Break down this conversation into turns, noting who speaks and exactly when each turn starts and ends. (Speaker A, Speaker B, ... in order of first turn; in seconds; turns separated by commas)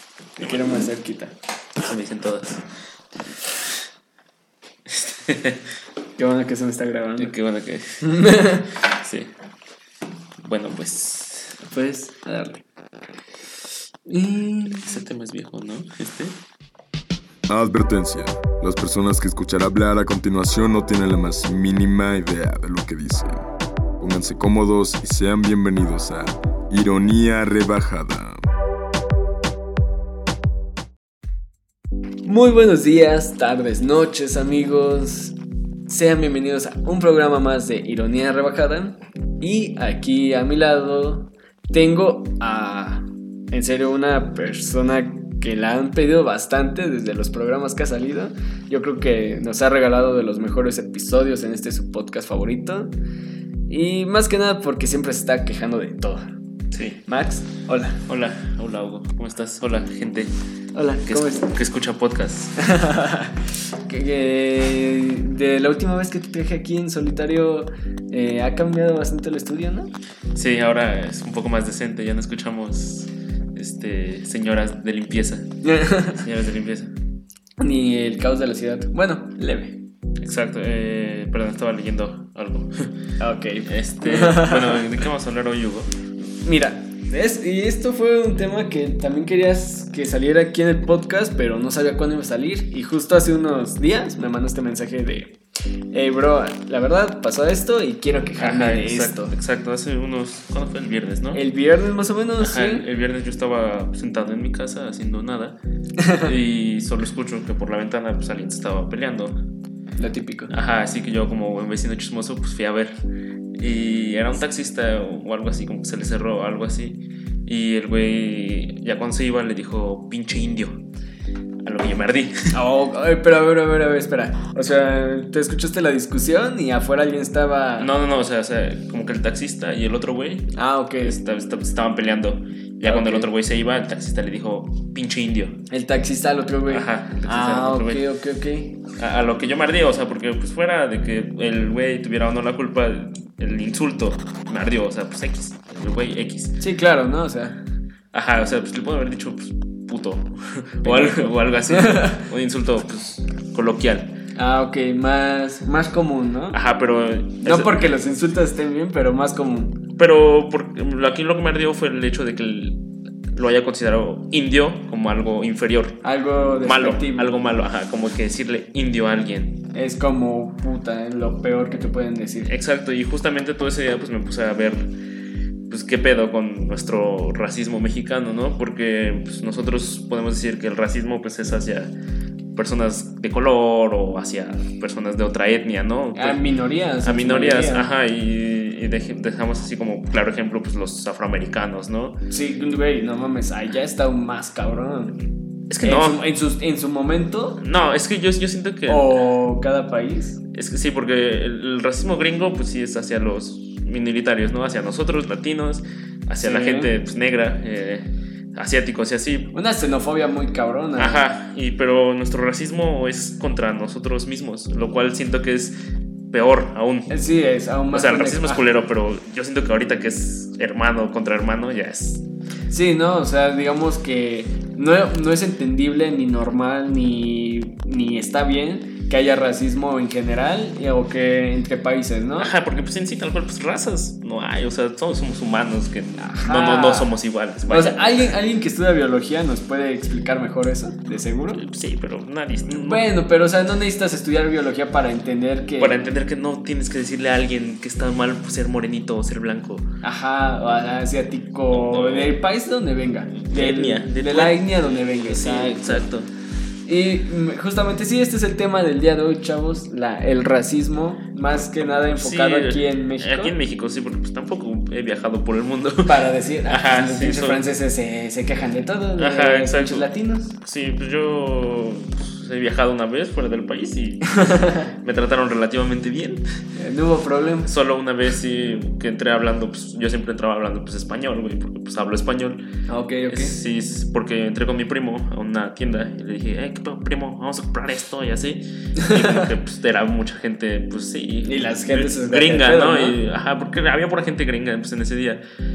Speaker A: 0.4-1.3, Speaker B: 1.8-2.6, Speaker B: 4.9-5.6, Speaker A: 6.2-7.3, Speaker B: 7.2-8.2, Speaker A: 8.0-8.7, Speaker B: 8.9-9.3, Speaker B: 10.4-11.6, Speaker A: 11.6-12.6, Speaker A: 14.0-15.0, Speaker B: 14.7-16.3, Speaker C: 17.5-23.4, Speaker C: 24.0-28.4, Speaker A: 32.2-35.4, Speaker A: 35.9-52.9, Speaker A: 53.7-56.3, Speaker B: 56.7-57.0, Speaker A: 57.0-58.0, Speaker B: 58.1-60.3, Speaker A: 60.7-61.5, Speaker B: 61.0-62.6, Speaker A: 62.6-69.9, Speaker B: 70.3-75.5, Speaker A: 75.6-76.2, Speaker B: 76.1-76.9, Speaker A: 77.6-79.8, Speaker B: 80.2-82.9, Speaker A: 83.2-85.0, Speaker B: 83.7-85.9, Speaker A: 86.4-95.4, Speaker A: 95.9-99.3, Speaker B: 98.4-101.4, Speaker A: 101.3-102.8, Speaker B: 102.4-105.6, Speaker A: 106.0-106.3, Speaker B: 106.2-109.4, Speaker A: 110.0-110.5, Speaker B: 110.5-112.9, Speaker B: 113.6-120.8, Speaker B: 121.6-122.5, Speaker A: 122.5-127.9, Speaker B: 127.8-135.6, Speaker A: 130.5-131.2, Speaker A: 132.8-133.3, Speaker A: 135.7-138.8, Speaker B: 136.7-138.0, Speaker B: 139.0-146.5, Speaker A: 146.6-147.6, Speaker B: 148.1-154.1, Speaker A: 150.8-152.2, Speaker A: 154.3-156.6, Speaker B: 156.5-157.9, Speaker A: 157.4-159.8, Speaker B: 160.0-162.8, Speaker B: 163.3-166.0, Speaker A: 166.0-167.3, Speaker B: 166.6-169.6, Speaker A: 169.7-172.5, Speaker B: 172.4-174.9, Speaker B: 175.7-181.9, Speaker B: 182.5-186.4, Speaker A: 186.1-187.9, Speaker B: 187.0-192.2, Speaker A: 192.3-195.2, Speaker B: 195.7-196.2, Speaker A: 195.8-197.6, Speaker B: 197.6-199.1, Speaker A: 198.9-200.4, Speaker B: 200.5-209.5, Speaker A: 206.4-206.9, Speaker A: 209.5-211.2, Speaker B: 211.0-215.7, Speaker B: 216.3-217.1, Speaker A: 217.1-218.6, Speaker B: 217.9-222.2, Speaker A: 222.7-232.5, Speaker B: 232.4-238.3, Speaker A: 236.2-237.1, Speaker A: 237.7-241.6, Speaker B: 241.5-243.0, Speaker A: 242.7-246.0, Speaker B: 245.8-249.9, Speaker A: 250.0-256.0, Speaker B: 251.7-252.3, Speaker B: 253.3-256.3, Speaker A: 256.9-263.5, Speaker B: 261.8-267.6, Speaker A: 266.1-270.6, Speaker B: 269.2-270.1, Speaker B: 270.6-276.4, Speaker A: 274.4-274.9, Speaker A: 276.8-277.7, Speaker B: 277.6-282.6, Speaker A: 282.9-283.5, Speaker B: 283.3-295.4, Speaker A: 289.1-289.5, Speaker A: 291.4-293.2